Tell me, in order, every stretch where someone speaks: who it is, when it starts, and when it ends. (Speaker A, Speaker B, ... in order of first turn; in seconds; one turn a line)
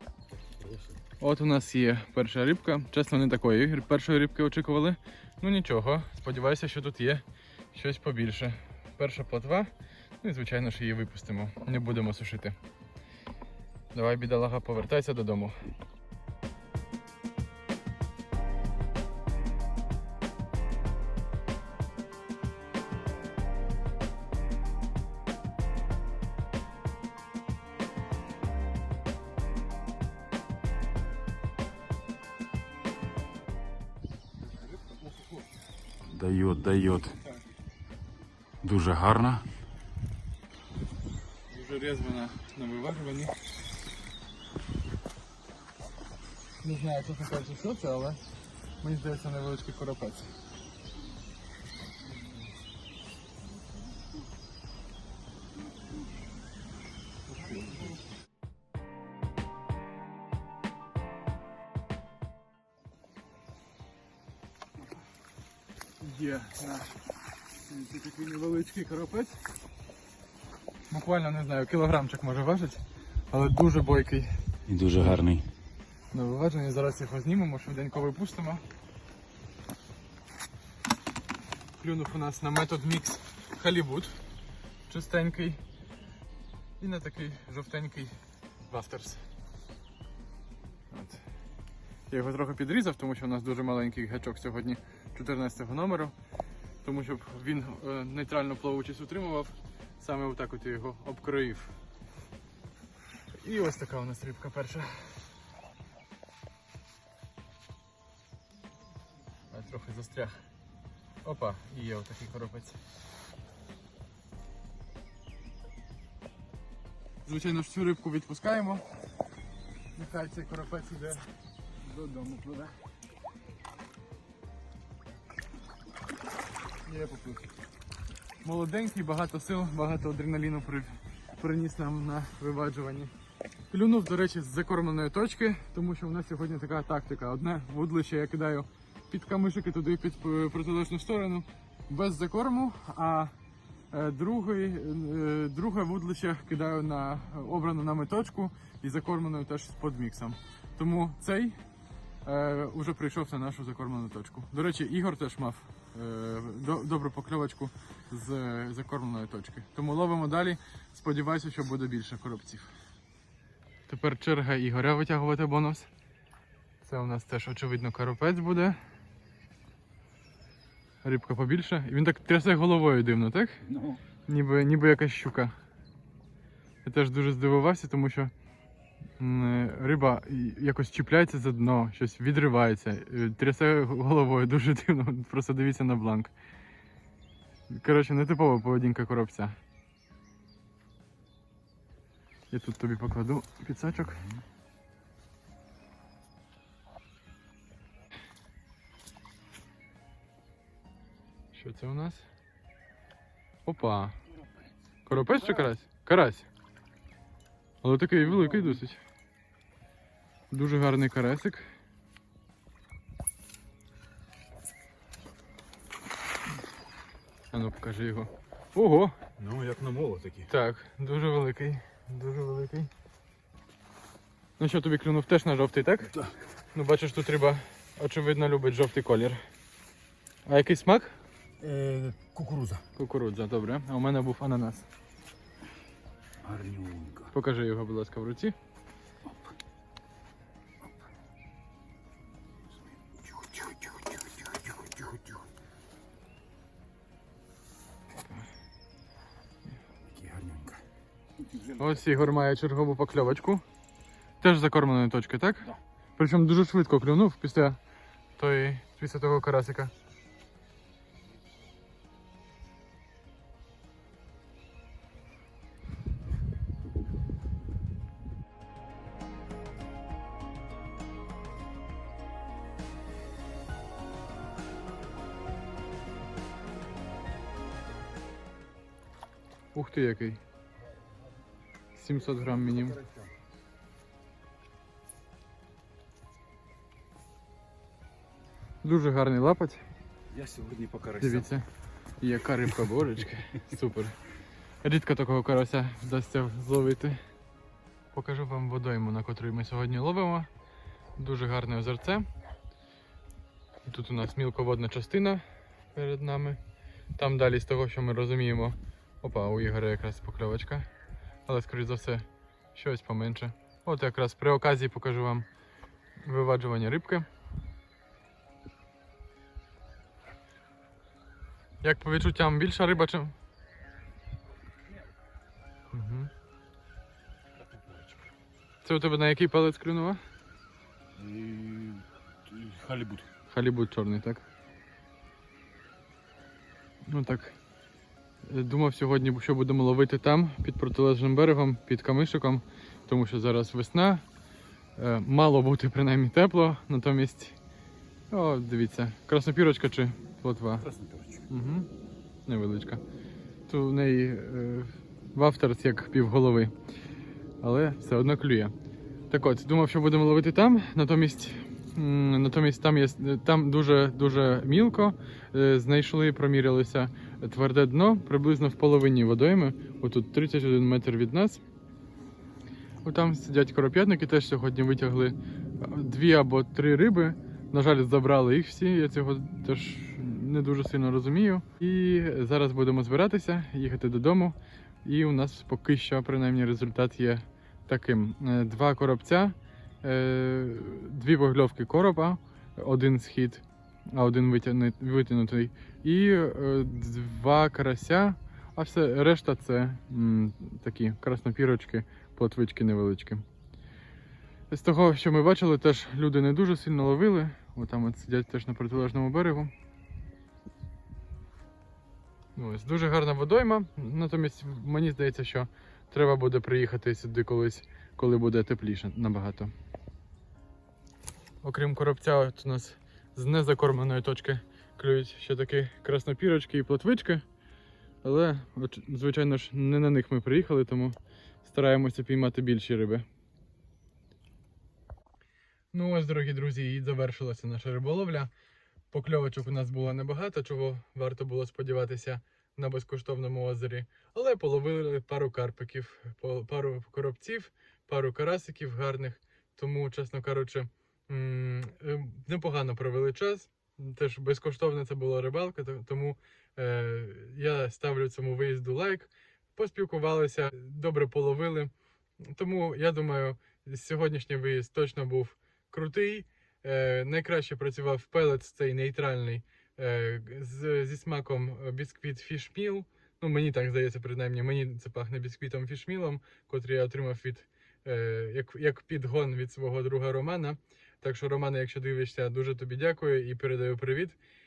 Speaker A: 0.6-1.0
Speaker B: 1.2-12.6
Speaker B: 13.9-15.6
Speaker A: 36.0-37.2
Speaker A: 38.6-39.5
Speaker B: 41.5-43.3
Speaker B: 46.6-48.2
Speaker B: 48.8-50.3
Speaker B: 57.3-57.9
Speaker B: 66.0-67.0
Speaker B: 67.6-69.4
Speaker B: 70.9-74.3
Speaker A: 74.7-75.5
Speaker B: 76.1-78.6
Speaker B: 81.8-84.2
Speaker B: 84.9-85.6
Speaker B: 86.8-88.2
Speaker B: 88.7-89.2
Speaker B: 90.9-91.2
Speaker B: 92.1-96.1
Speaker B: 96.8-101.7
Speaker B: 103.4-105.2
Speaker B: 109.5-110.4
Speaker B: 111.2-112.8
Speaker B: 117.2-118.8
Speaker B: 119.9-121.3
Speaker B: 121.9-122.7
Speaker B: 126.9-127.5
Speaker B: 128.4-133.1
Speaker B: 133.7-143.3
Speaker B: 143.9-151.6
Speaker B: 152.2-162.7
Speaker B: 163.9-165.9
Speaker B: 166.8-168.8
Speaker B: 171.0-173.6
Speaker A: 173.7-174.0
Speaker B: 174.2-175.5
Speaker B: 176.8-178.3
Speaker B: 179.2-186.3
Speaker B: 187.7-189.6
Speaker B: 192.5-194.2
Speaker B: 201.5-202.3
Speaker B: 203.7-204.2
Speaker B: 205.1-206.5
Speaker B: 207.8-209.0
Speaker B: 210.5-211.7
Speaker B: 217.5-219.1
Speaker A: 219.4-220.5
Speaker B: 220.5-222.9
Speaker B: 224.6-226.1
Speaker B: 226.7-229.4
Speaker B: 230.4-231.2
Speaker A: 231.6-232.8
Speaker B: 232.9-234.9
Speaker A: 236.4-237.3
Speaker B: 237.3-238.5
Speaker A: 243.0-245.3
Speaker A: 250.0-250.8
Speaker B: 251.7-253.6
Speaker B: 254.4-257.8
Speaker B: 258.4-259.9
Speaker B: 279.7-280.4
Speaker B: 281.9-283.0
Speaker A: 282.8-283.3
Speaker B: 288.8-289.8
Speaker A: 290.3-291.5
Speaker B: 291.2-291.6
Speaker B: 292.2-294.1
Speaker B: 294.8-297.2
Speaker B: 298.1-300.5
Speaker B: 301.2-302.3
Speaker B: 303.8-306.6
Speaker B: 307.1-310.9
Speaker B: 311.4-315.5
Speaker B: 316.2-317.2
Speaker B: 321.8-323.3
Speaker B: 325.9-326.3
Speaker A: 327.6-328.1
Speaker B: 328.8-330.2
Speaker A: 331.1-333.3
Speaker B: 333.4-334.4
Speaker B: 337.1-337.6
Speaker B: 338.4-344.2
Speaker B: 344.9-347.6
Speaker B: 348.3-350.9
Speaker A: 350.8-351.5
Speaker B: 351.5-351.9
Speaker B: 352.4-353.0
Speaker B: 353.7-356.7
Speaker B: 357.6-358.7
Speaker B: 359.3-371.6
Speaker B: 373.0-403.4
Speaker B: 404.7-409.7
Speaker B: 412.6-419.7
Speaker B: 421.6-427.4
Speaker B: 428.2-433.2
Speaker B: 435.9-438.5
Speaker B: 439.1-461.9
Speaker B: 462.4-484.4